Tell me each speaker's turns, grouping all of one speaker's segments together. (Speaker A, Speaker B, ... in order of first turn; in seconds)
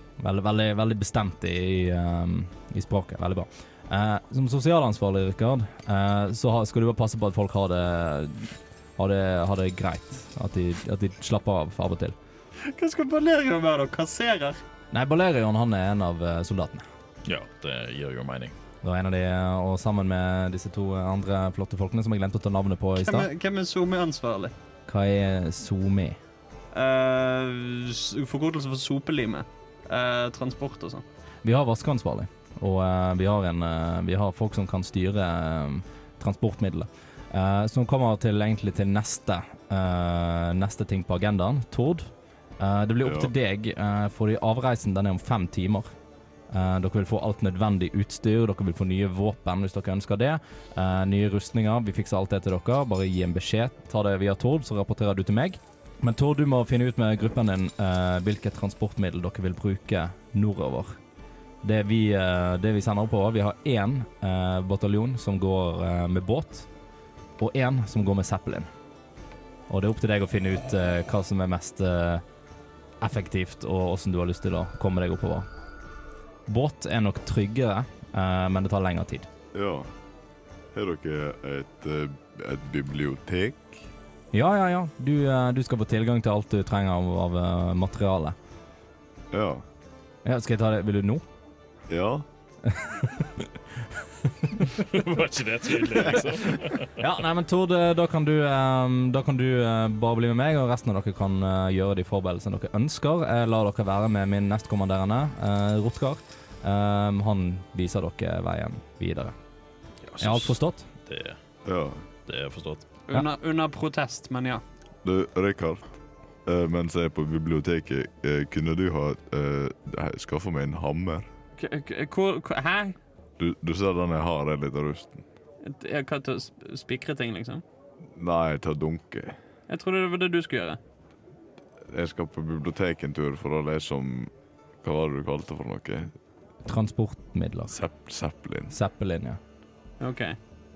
Speaker A: 0.2-12.2, 14.9-16.9, 18.8-23.3, 24.9-26.2, 31.4-45.9, 46.5-61.0, 61.6-66.7, 67.4-68.7, 69.7-72.2, 73.0-75.5, 76.5-79.3, 84.3-88.4, 90.2-91.2, 92.6-94.6, 97.0-109.3, 110.2-110.9, 136.7-137.8, 138.7-139.4
Speaker B: 12.6-14.6, 23.0-24.5, 26.7-31.0, 113.1-114.6, 121.6-123.0, 125.6-127.6, 129.7-130.8, 140.0-140.4
Speaker C: 17.2-18.6, 94.7-97.0, 110.1-111.4, 112.3-112.8
Speaker D: 43.0-43.3, 79.5-79.9, 80.7-83.9, 89.3-89.6, 91.9-92.2, 111.7-112.0, 115.0-121.3, 123.4-125.2, 128.2-129.4, 131.9-134.3, 134.8-136.1, 137.7-138.7